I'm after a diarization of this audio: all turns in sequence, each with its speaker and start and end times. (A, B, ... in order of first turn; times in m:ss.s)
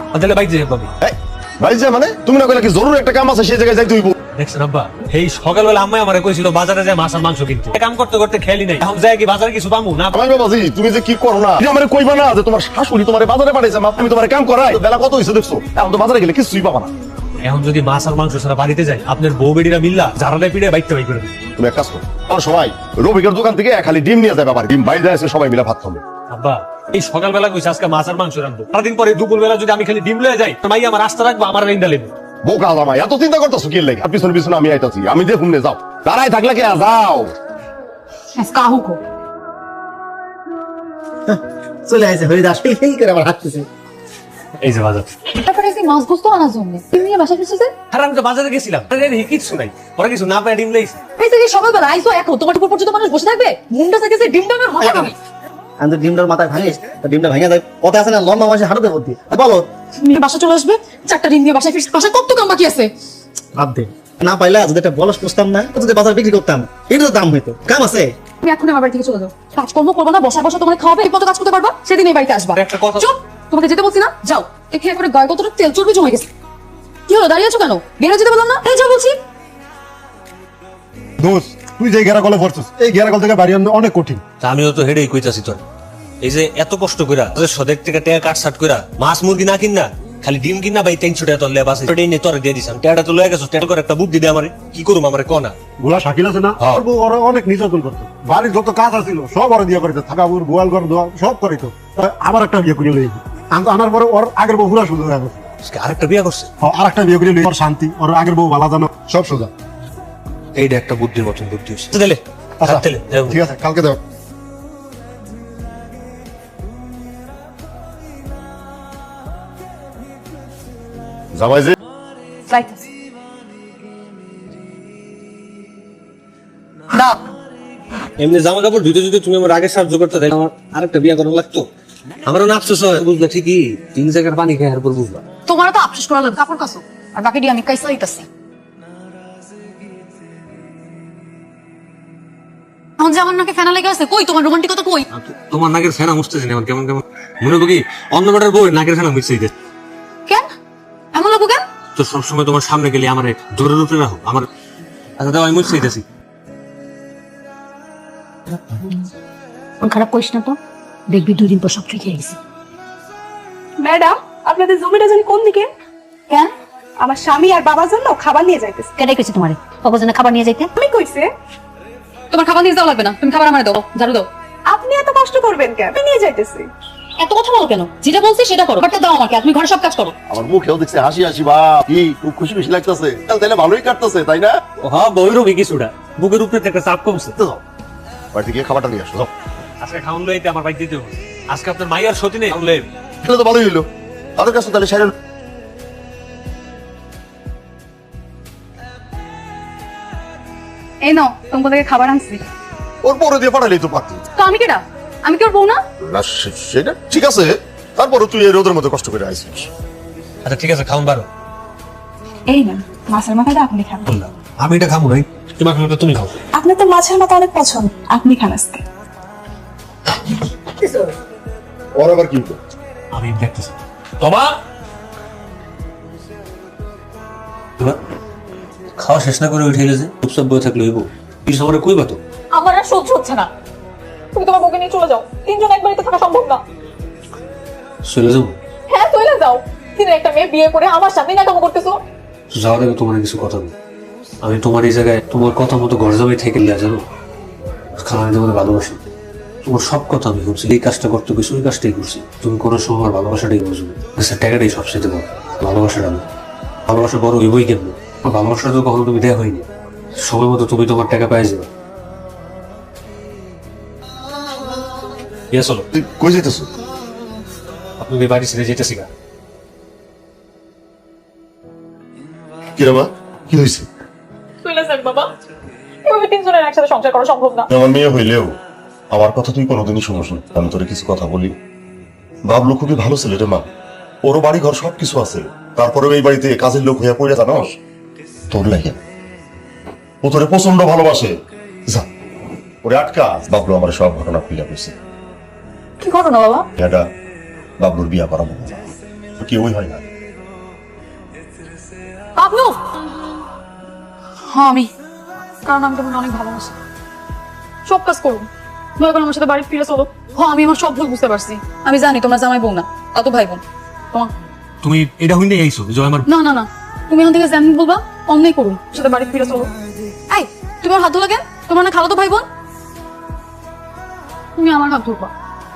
0:00.1-0:00.9 A
0:01.0-0:04.1 B
0:04.3-0:10.1 A
0:10.1-0:16.9 B
0:17.4-0:21.3 A
0:21.6-0:26.0 B
0:26.3-0:32.1 A
0:32.4-0:37.3 B
0:38.3-0:39.0 C
0:41.3-0:43.7 D
0:44.6-0:45.1 A
0:45.3-0:47.7 C
0:47.9-0:51.0 A
0:51.2-0:55.1 C
0:55.8-0:59.7 D
1:00.0-1:02.9 C
1:03.6-1:08.2 D
1:08.4-1:16.3 C
1:12.5-1:13.1 A
1:17.1-1:19.2 C
1:21.2-1:24.2 E
1:24.4-1:25.6 A
1:26.2-1:35.6 A
1:35.8-1:45.4 E
1:45.6-1:46.5 A
1:46.6-1:49.5 E
1:50.5-1:53.4 A
1:52.6-1:54.0 E
2:01.3-2:01.7 B
2:02.5-2:02.8 C
2:06.9-2:07.2 C
2:08.2-2:11.7 A
2:12.2-2:15.2 A
2:15.4-2:18.3 C
2:23.0-2:25.1 C
2:25.1-2:29.5 A
2:31.1-2:31.6 C
2:31.9-2:34.5 A
2:35.2-2:36.0 A
2:39.8-2:40.6 F
2:41.1-2:42.4 F
2:43.8-2:45.7 G
2:47.0-2:48.9 G
2:49.0-2:50.7 F
2:50.8-2:51.3 G
2:52.3-2:54.3 C
2:54.7-2:56.7 G
2:57.2-3:00.1 C
3:00.3-3:04.6 B
3:04.8-3:07.5 A
3:08.3-3:09.3 B
3:09.8-3:12.9 A
3:13.2-3:15.1 B
3:21.0-3:22.4 C
3:23.0-3:24.2 B
3:24.3-3:25.8 C
3:26.0-3:29.7 B
3:30.4-3:31.3 A
3:32.5-3:34.0 G
3:34.1-3:36.4 A
3:36.6-3:38.8 G
3:41.9-3:42.6 B
3:43.1-3:44.5 A
3:49.0-3:52.2 A
3:52.5-3:53.5 C
3:54.3-3:56.6 C
3:58.0-3:58.6 A
3:58.9-4:02.0 C
4:02.5-4:03.7 A
4:04.4-4:07.0 A
4:08.0-4:09.1 A
4:09.6-4:16.2 A
4:16.9-4:19.7 A
4:20.2-4:21.7 A
4:25.5-4:25.8 A
4:25.9-4:26.7 B
4:28.0-4:29.1 A
4:32.8-4:33.9 B
4:34.6-4:35.3 C
4:36.0-4:37.7 C
4:37.7-4:38.5 B
4:39.1-4:41.5 B
4:42.4-4:43.6 B
4:44.2-4:47.8 B
4:48.5-4:49.0 B
4:50.2-4:51.3 B
4:52.8-4:54.9 B
4:56.0-4:56.7 C
4:56.8-4:57.0 B
4:57.8-5:00.0 B
5:02.4-5:02.8 C
5:04.5-5:04.9 C
5:05.6-5:06.8 C
5:07.8-5:14.3 C
5:14.8-5:16.3 A
5:16.2-5:19.7 C
5:20.3-5:22.4 C
5:24.6-5:25.3 C